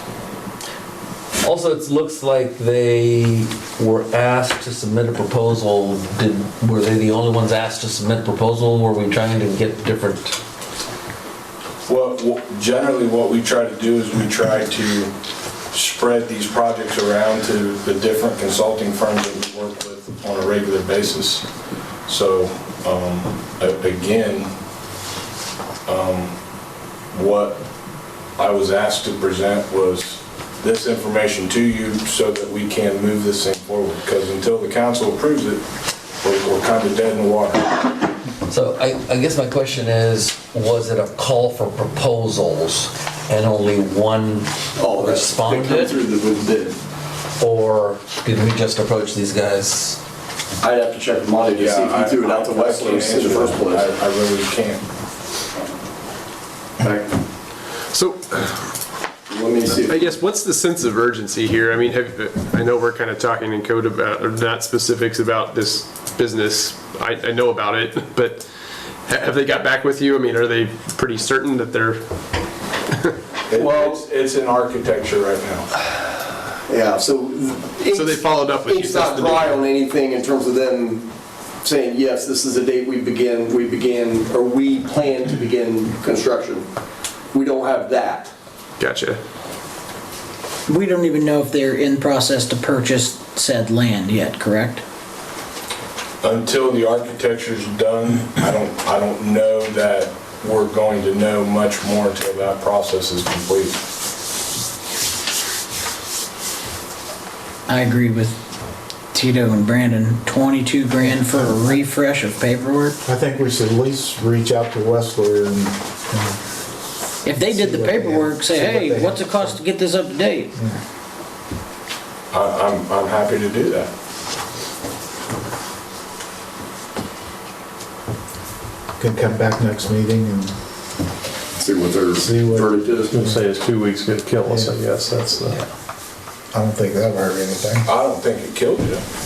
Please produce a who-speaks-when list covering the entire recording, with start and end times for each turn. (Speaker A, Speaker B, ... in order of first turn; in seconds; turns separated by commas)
Speaker A: 1.4-10.4, Speaker B: 11.9-15.1, Speaker B: 15.7-21.5, Speaker B: 22.1-24.5, Speaker B: 25.9-26.3, Speaker B: 27.1-27.6, Speaker B: 28.4-35.6, Speaker B: 36.2-37.7, Speaker A: 38.5-46.0, Speaker C: 44.8-46.8, Speaker A: 47.4-50.0, Speaker C: 50.6-54.0, Speaker B: 51.5-54.8, Speaker C: 56.8-57.1, Speaker D: 57.9-58.7, Speaker C: 59.3-60.1, Speaker D: 59.7-68.5, Speaker D: 69.1-72.0, Speaker D: 72.9-74.0, Speaker B: 73.5-75.7, Speaker C: 76.7-81.1, Speaker D: 77.9-79.6, Speaker C: 81.6-86.7, Speaker C: 87.3-88.3, Speaker D: 88.8-89.2, Speaker E: 90.7-94.8, Speaker B: 96.2-103.8, Speaker E: 107.7-108.4, Speaker E: 109.1-113.0, Speaker F: 111.0-111.6, Speaker F: 113.0-116.4, Speaker E: 117.2-120.5, Speaker F: 117.4-119.6, Speaker B: 122.3-123.9, Speaker F: 129.0-130.5, Speaker C: 131.6-133.2, Speaker F: 132.2-133.4, Speaker G: 133.1-135.7, Speaker F: 134.5-134.7, Speaker F: 136.5-137.9, Speaker B: 137.8-139.0